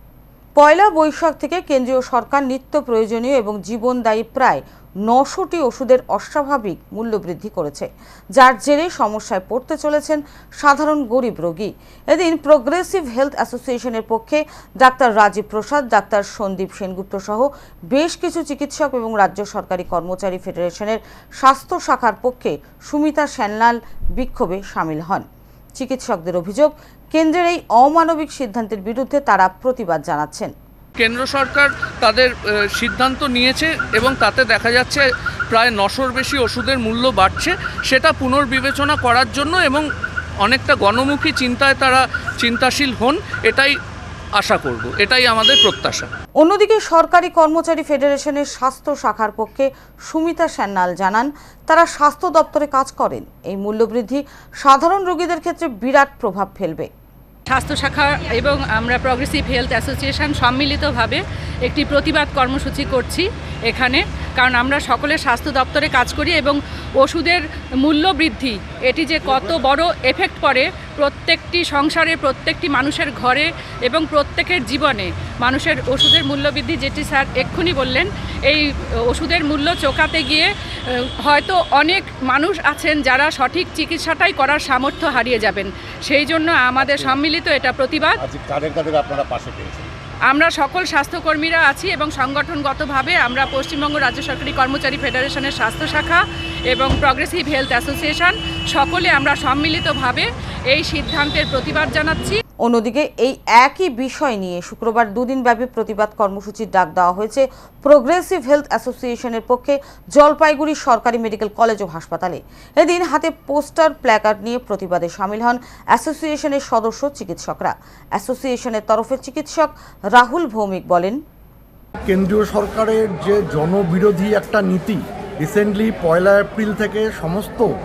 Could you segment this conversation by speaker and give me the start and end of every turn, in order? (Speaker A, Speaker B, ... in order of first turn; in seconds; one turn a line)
Speaker A: 0.6-25.3
Speaker A: 25.8-30.5
Speaker B: 31.0-39.9
Speaker B: 40.4-43.7
Speaker B: 44.4-46.1
Speaker A: 46.4-56.9
Speaker C: 57.5-88.2
Speaker D: 86.8-87.2
Speaker D: 88.2-89.9
Speaker C: 90.3-102.4
Speaker A: 102.6-121.2
Speaker E: 122.1-127.7